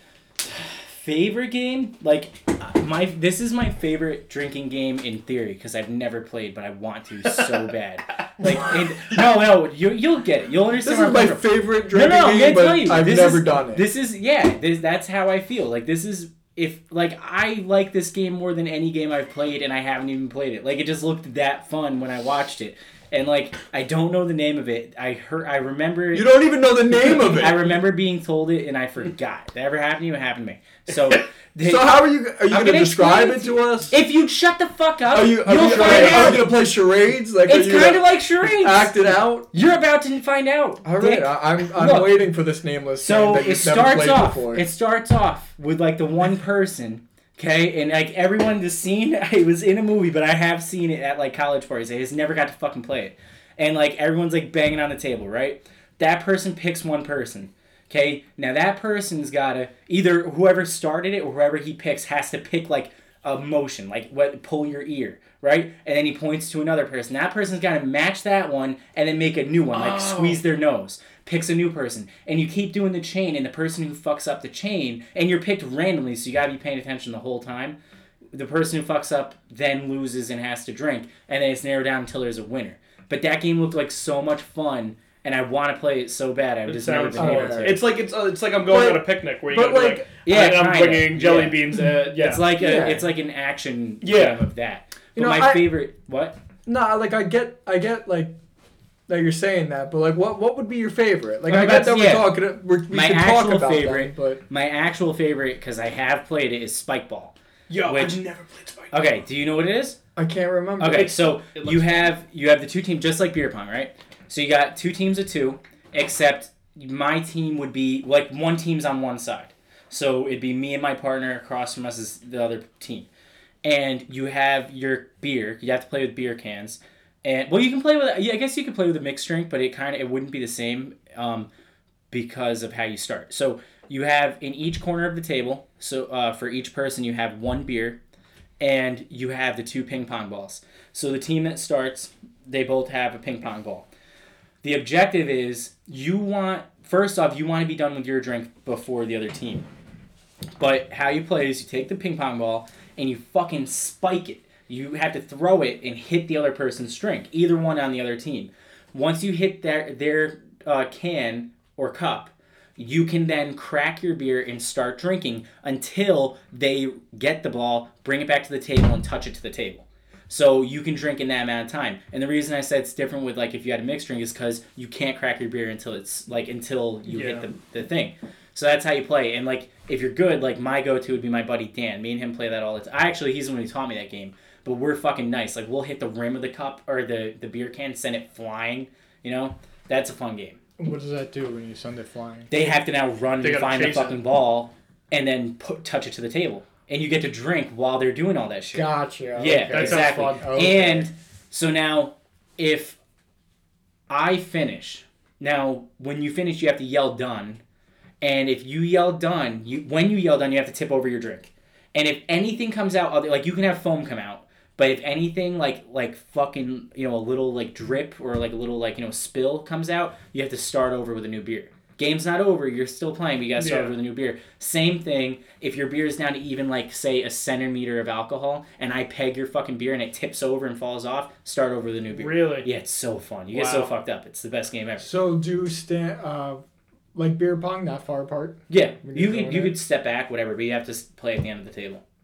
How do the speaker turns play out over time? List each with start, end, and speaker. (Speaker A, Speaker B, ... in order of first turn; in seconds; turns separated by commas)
Speaker A: 0.4-26.3, Speaker B: 10.8-13.9, Speaker B: 26.1-27.8, Speaker A: 26.9-36.6, Speaker B: 31.6-34.0, Speaker B: 35.1-39.5, Speaker C: 35.6-36.4, Speaker A: 37.4-42.1, Speaker B: 40.8-44.7, Speaker A: 43.0-77.8, Speaker C: 69.8-70.4, Speaker A: 78.3-87.8, Speaker C: 86.7-92.5, Speaker B: 87.2-87.9, Speaker B: 88.7-90.1, Speaker A: 90.2-96.4, Speaker B: 92.6-93.1, Speaker C: 94.0-94.4, Speaker B: 95.2-95.8, Speaker B: 96.7-98.3, Speaker B: 99.1-104.4, Speaker A: 101.5-102.4, Speaker A: 102.9-107.3, Speaker C: 107.7-108.9, Speaker A: 107.9-108.2, Speaker A: 108.9-110.0, Speaker B: 110.2-111.2, Speaker A: 110.8-123.1, Speaker C: 111.5-112.1, Speaker A: 123.6-131.5, Speaker A: 132.1-138.0, Speaker A: 138.6-143.9, Speaker A: 144.6-149.7, Speaker A: 150.6-190.6, Speaker C: 177.1-177.5, Speaker B: 190.8-192.5, Speaker A: 192.5-203.0, Speaker C: 193.4-194.2, Speaker B: 198.7-201.1, Speaker C: 199.7-200.5, Speaker A: 204.1-207.6, Speaker A: 208.2-235.1, Speaker C: 223.6-224.0, Speaker C: 232.1-232.7, Speaker C: 233.5-233.9, Speaker B: 235.0-239.8, Speaker A: 238.7-242.0